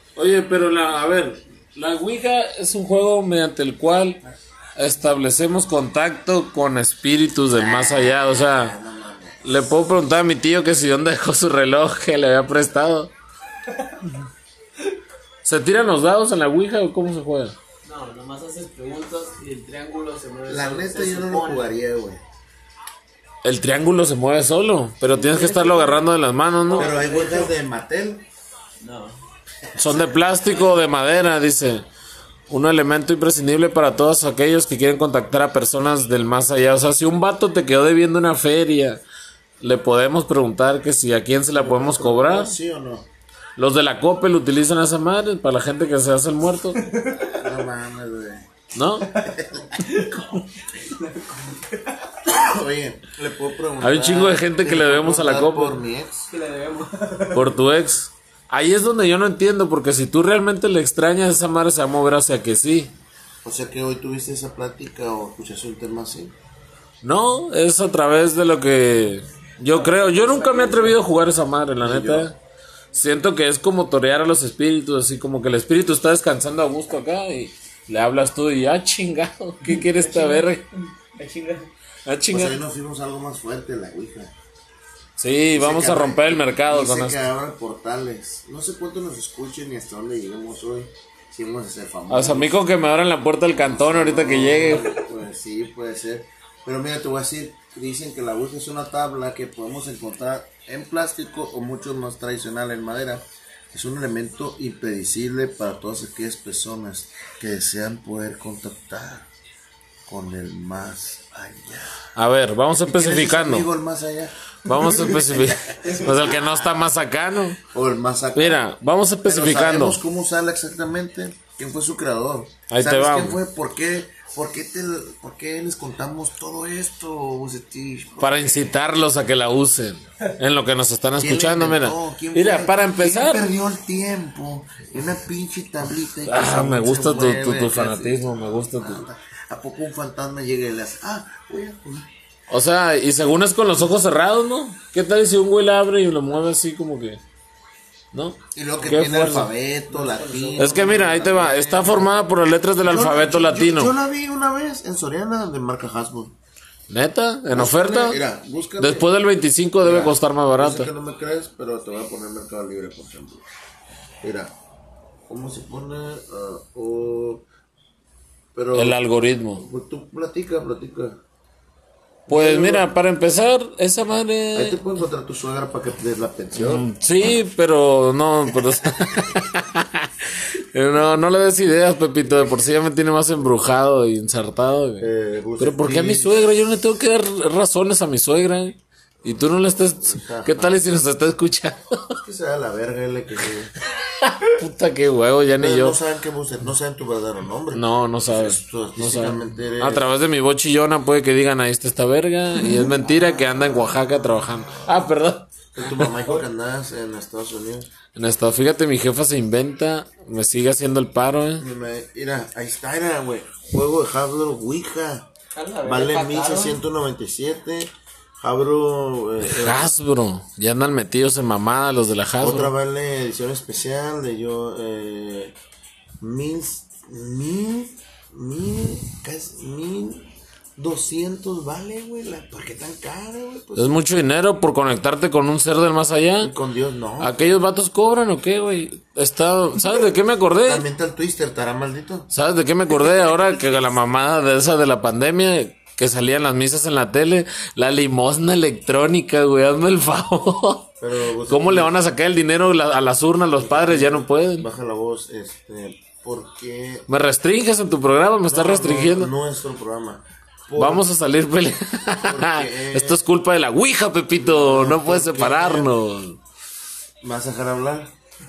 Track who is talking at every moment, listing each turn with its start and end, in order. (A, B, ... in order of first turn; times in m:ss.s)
0:00.2-0:04.2 A
0:04.8-0:08.8 A
0:07.5-0:09.6 B
0:09.4-0:13.1 A
0:15.4-0:17.6 A
0:17.8-0:21.7 C
0:20.5-0:22.2 B
0:23.4-0:26.9 A
0:25.1-0:26.0 C
0:26.7-0:27.5 C
0:26.7-0:28.2 B
0:28.8-0:29.2 C
0:29.8-0:31.8 A
0:32.5-0:39.0 A
0:39.6-0:42.6 A
0:41.5-0:43.1 B
0:43.6-0:46.8 A
0:46.9-0:47.3 C
0:47.3-0:48.5 B
0:48.7-0:49.2 A
0:49.1-0:50.4 B
0:49.8-0:50.1 C
0:50.9-0:52.0 C
0:52.1-0:56.3 B
0:53.8-0:55.8 A
0:56.3-0:57.5 C
0:57.3-1:02.9 A
1:03.4-1:06.3 B
1:07.0-1:12.4 A
1:09.7-1:11.0 C
1:11.8-1:12.3 B
1:12.9-1:20.6 A
1:19.7-1:21.7 C
1:22.0-1:22.6 A
1:22.3-1:24.3 B
1:25.2-1:27.2 A
1:25.5-1:32.6 B
1:32.1-1:35.0 A
1:33.5-1:49.3 B
1:50.1-1:52.1 B
1:52.2-1:53.7 A
1:52.8-1:56.8 B
1:54.6-1:57.6 A
1:57.7-1:58.6 B
1:58.3-2:00.0 A
1:59.2-2:08.7 B
2:02.7-2:03.4 A
2:08.2-2:13.5 A
2:11.2-2:22.1 B
2:16.2-2:19.0 A
2:22.5-2:27.2 A
2:28.1-2:29.5 A
2:28.5-2:32.0 B
2:29.9-2:31.6 C
2:30.6-2:33.9 A
2:32.8-2:36.4 B
2:36.9-2:38.2 A
2:37.5-2:39.1 B
2:38.8-2:40.9 A
2:39.8-2:43.4 B
2:44.2-2:44.5 B
2:45.3-2:47.4 B
2:48.5-2:49.0 B
2:48.7-2:49.6 A
2:49.5-2:51.2 B
2:52.3-2:52.9 B
2:52.3-2:54.8 A
2:54.5-2:56.9 B
2:56.5-3:12.2 A
3:05.0-3:06.4 B
3:10.0-3:10.8 B
3:12.2-3:13.7 B
3:14.0-3:16.0 A
3:15.6-3:20.1 B
3:17.7-3:26.2 A
3:22.6-3:24.1 B
3:25.7-3:27.9 B
3:28.2-3:31.6 A
3:31.6-3:35.3 B
3:35.5-3:36.8 C
3:35.8-3:39.9 B
3:39.4-3:42.7 A
3:42.4-3:45.5 B
3:46.2-3:54.0 B
3:53.8-3:56.5 A
3:56.4-3:57.4 B
3:57.2-4:00.8 A
4:00.6-4:02.3 B
4:02.3-4:10.9 A
4:11.0-4:11.9 B
4:11.4-4:14.7 A
4:13.6-4:17.1 B
4:17.1-4:19.3 A
4:18.5-4:21.1 B
4:20.8-4:26.4 A
4:22.1-4:23.2 B
4:24.4-4:25.9 B
4:27.2-4:28.1 B